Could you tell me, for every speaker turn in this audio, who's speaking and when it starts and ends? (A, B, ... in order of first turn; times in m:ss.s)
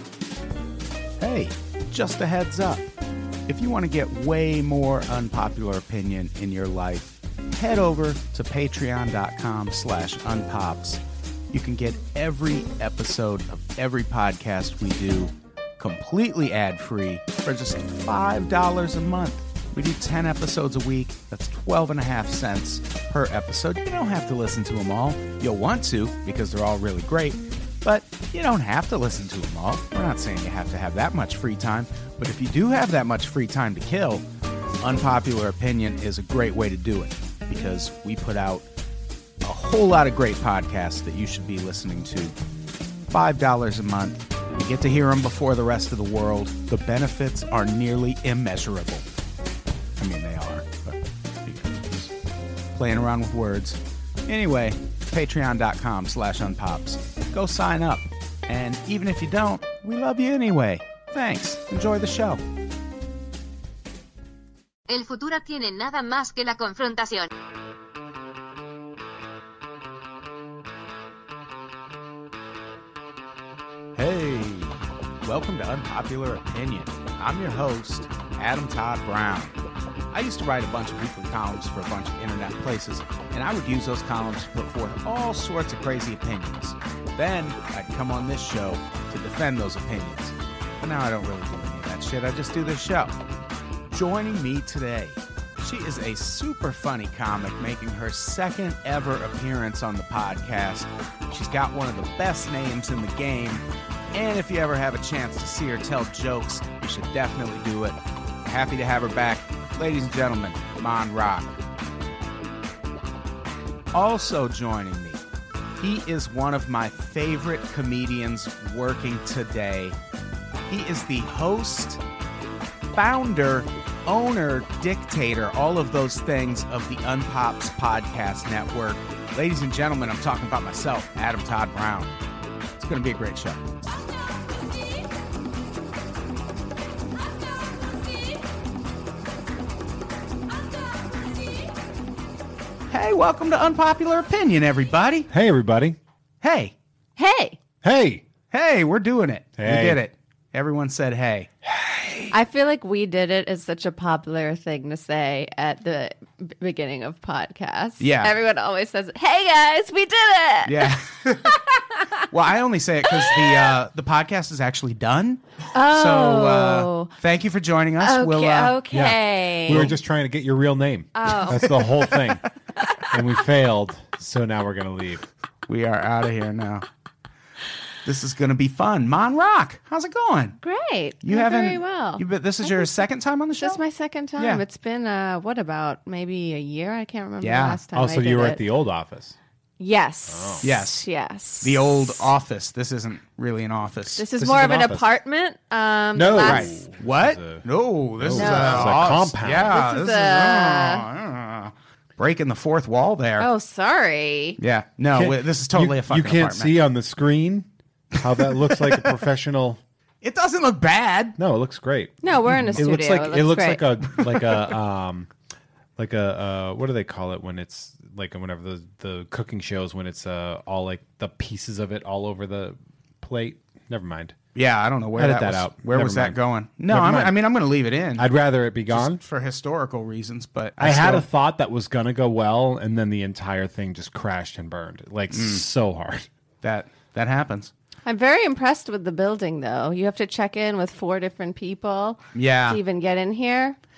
0:01.2-0:02.9 A
0:03.5-0:34.2 A
0:34.8-0:38.7 A
0:39.4-0:42.3 A
0:43.1-0:49.0 A
0:50.0-0:52.1 A
0:52.7-1:02.4 A
1:04.9-1:07.3 B
1:14.0-1:19.6 A
1:20.1-1:33.2 A
1:33.9-1:51.5 A
1:53.9-1:55.2 A
1:55.8-2:00.0 A
2:00.7-2:02.0 A
2:02.9-2:12.1 A
2:12.8-2:13.6 A
2:22.9-2:25.3 A
2:25.3-2:26.0 C
2:26.4-2:26.7 A
2:27.2-2:27.6 D
2:27.8-2:28.2 C
2:28.5-2:31.5 A
2:29.6-2:30.0 C
2:31.8-2:32.1 C
2:32.3-2:42.2 D
2:38.0-2:38.3 A
2:40.6-2:41.6 A
2:42.3-2:48.8 A
2:43.1-2:43.7 D
2:45.7-2:47.1 D
2:48.0-2:49.8 D
2:48.9-2:52.4 C
2:49.7-2:50.0 A
2:51.1-2:51.9 D
2:53.1-2:55.2 C
2:55.7-2:56.8 A
2:58.0-3:00.6 A
3:00.6-3:03.0 D
3:01.2-3:03.8 A
3:03.6-3:08.6 D
3:04.4-3:04.6 A
3:07.4-3:07.8 A
3:07.9-3:09.4 C
3:09.8-3:12.3 D
3:10.3-3:10.7 C
3:10.6-3:11.1 A
3:11.6-3:14.2 A
3:14.2-3:16.8 D
3:14.4-3:15.1 C
3:16.1-3:17.6 C
3:16.4-3:23.5 A
3:18.2-3:19.8 C
3:18.4-3:19.1 D
3:19.7-3:21.0 D
3:23.4-3:24.6 D
3:24.6-3:26.7 A
3:25.1-3:29.8 C
3:28.2-3:29.1 A
3:30.2-3:31.4 A
3:31.4-3:35.3 C
3:32.2-3:33.8 D
3:34.2-3:34.5 A
3:36.0-3:44.4 C
3:44.5-3:48.2 A
3:45.2-3:46.4 C
3:46.9-3:47.3 C
3:48.2-3:49.2 C
3:48.9-3:51.2 A
3:50.8-3:56.2 C
3:55.3-3:55.6 A
3:56.6-3:57.7 A
3:58.0-4:03.8 D
4:02.3-4:02.8 A